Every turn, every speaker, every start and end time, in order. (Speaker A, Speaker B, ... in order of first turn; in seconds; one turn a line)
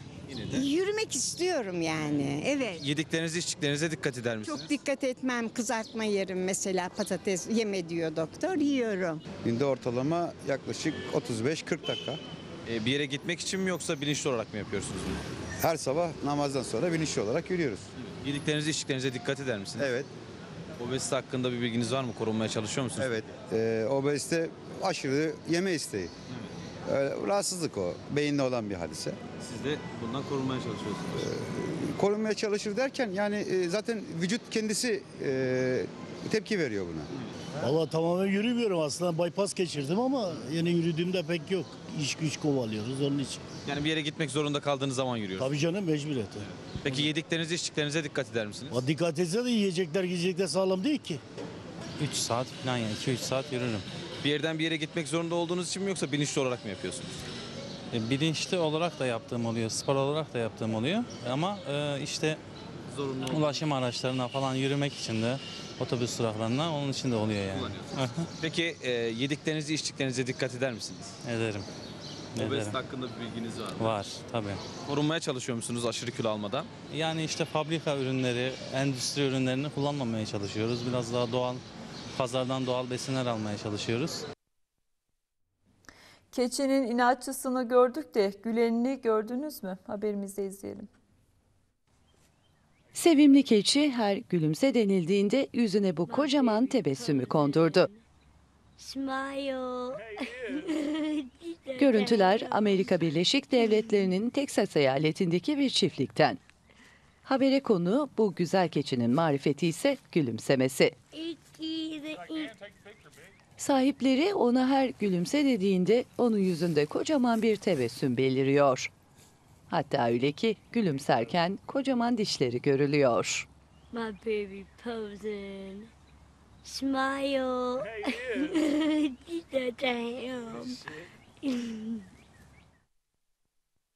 Speaker A: 0.3-0.7
Speaker B: 0.5-2.8
Speaker A: 2.8-4.8
Speaker B: 4.4-9.2
Speaker C: 9.4-12.2
Speaker A: 12.6-15.2
Speaker C: 15.6-17.9
Speaker A: 18.0-19.9
Speaker C: 19.8-20.1
Speaker A: 20.8-23.1
Speaker C: 23.0-26.1
Speaker C: 26.9-29.2
Speaker A: 29.4-31.2
Speaker C: 31.1-37.1
Speaker D: 37.6-43.5
Speaker A: 43.6-45.5
Speaker D: 45.4-46.5
Speaker A: 46.4-48.8
Speaker D: 48.7-51.2
Speaker E: 52.0-53.9
Speaker A: 54.2-57.2
Speaker E: 57.9-62.4
Speaker A: 62.9-63.6
Speaker E: 63.3-68.3
Speaker A: 67.5-71.2
Speaker E: 71.2-71.7
Speaker E: 72.3-72.8
Speaker A: 72.3-74.0
Speaker E: 73.8-74.6
Speaker A: 74.8-76.7
Speaker E: 76.9-81.6
Speaker E: 82.1-84.2
Speaker F: 86.3-90.9
Speaker G: 92.9-97.9
Speaker H: 96.0-98.0
Speaker H: 98.8-104.2
Speaker G: 101.8-106.4
Speaker G: 107.2-111.0
Speaker H: 111.1-112.5
Speaker G: 113.6-118.9
Speaker G: 119.7-123.5
Speaker H: 123.9-125.9
Speaker H: 126.6-130.8
Speaker H: 131.4-132.0